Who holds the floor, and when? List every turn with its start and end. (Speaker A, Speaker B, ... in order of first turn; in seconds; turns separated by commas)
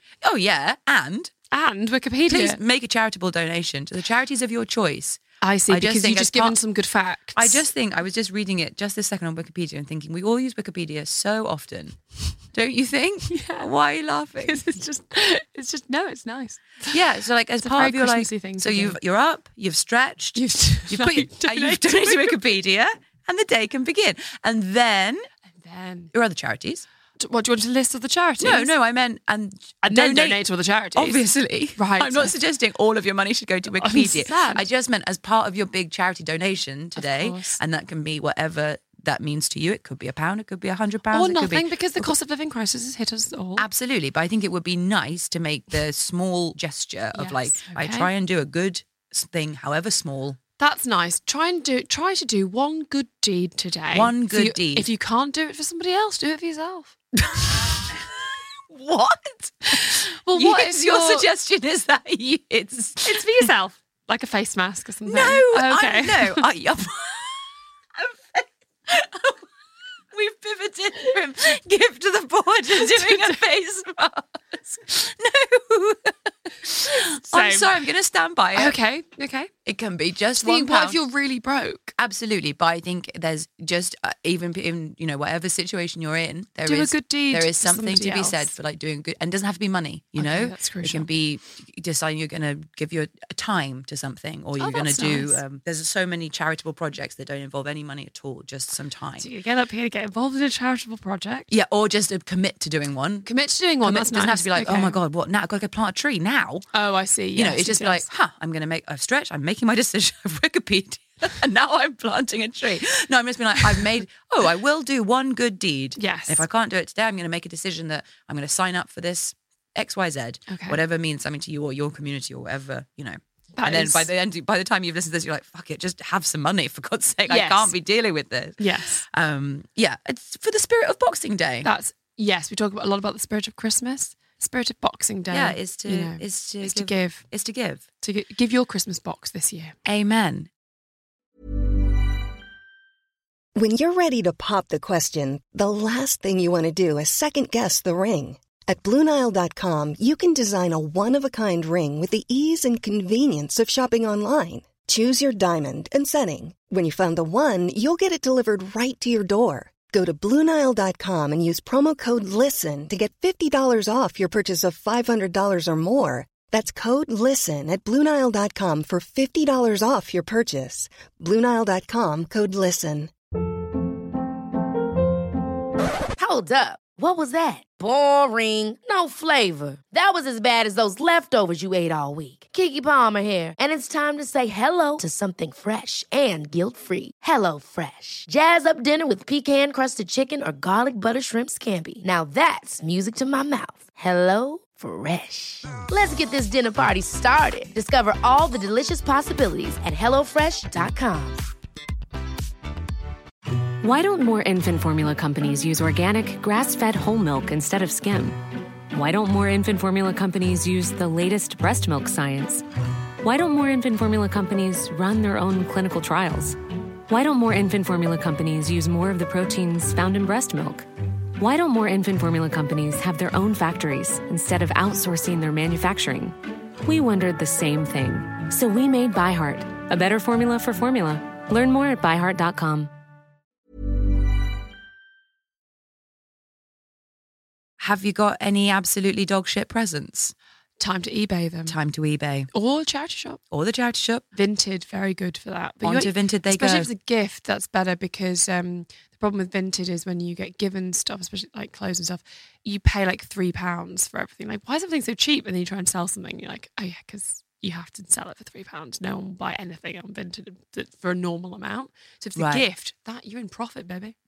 Speaker A: 0.2-1.3, Speaker B: 1.5-2.6, Speaker A: 2.3-6.6, Speaker B: 5.4-7.6, Speaker A: 7.4-12.0, Speaker A: 12.5-14.6, Speaker B: 13.3-13.7, Speaker B: 14.4-17.0, Speaker A: 16.9-25.3, Speaker B: 17.6-19.0, Speaker B: 20.4-22.4, Speaker B: 25.6-26.1, Speaker A: 26.1-26.9, Speaker B: 27.2-28.7, Speaker A: 28.4-30.4, Speaker B: 29.8-31.2, Speaker A: 30.9-42.1, Speaker B: 31.8-32.3, Speaker B: 33.8-34.6, Speaker B: 37.0-37.6, Speaker B: 41.1-43.6, Speaker A: 43.6-50.4, Speaker B: 47.1-48.1, Speaker B: 50.6-57.0, Speaker A: 53.9-54.9, Speaker A: 57.3-63.5, Speaker B: 59.7-61.3, Speaker B: 63.0-66.5, Speaker A: 65.1-69.4, Speaker A: 70.1-78.8, Speaker B: 72.8-73.3, Speaker B: 77.3-77.7, Speaker B: 78.5-79.5, Speaker A: 79.7-81.0, Speaker B: 80.4-81.9, Speaker A: 82.0-99.3, Speaker B: 86.7-88.5, Speaker B: 90.2-91.1, Speaker B: 94.6-95.4, Speaker B: 99.2-101.5, Speaker A: 101.5-103.3, Speaker B: 103.2-105.0, Speaker A: 103.8-106.7, Speaker B: 106.7-108.0, Speaker A: 107.3-131.7, Speaker B: 116.0-116.4, Speaker B: 120.5-120.8, Speaker B: 123.6-124.1, Speaker B: 127.3-127.7, Speaker B: 128.6-129.0, Speaker B: 131.6-137.2, Speaker A: 135.3-137.8, Speaker B: 138.0-139.8, Speaker A: 139.9-140.5, Speaker C: 143.6-173.1, Speaker D: 176.2-201.5, Speaker E: 203.8-208.4, Speaker E: 208.9-212.6, Speaker E: 213.2-216.6, Speaker E: 217.1-220.9, Speaker E: 221.4-232.9, Speaker A: 237.8-240.3, Speaker B: 240.8-241.8, Speaker A: 241.7-242.5, Speaker B: 242.5-243.4, Speaker A: 243.5-244.2, Speaker B: 244.3-264.1, Speaker A: 245.8-246.9, Speaker A: 262.4-262.7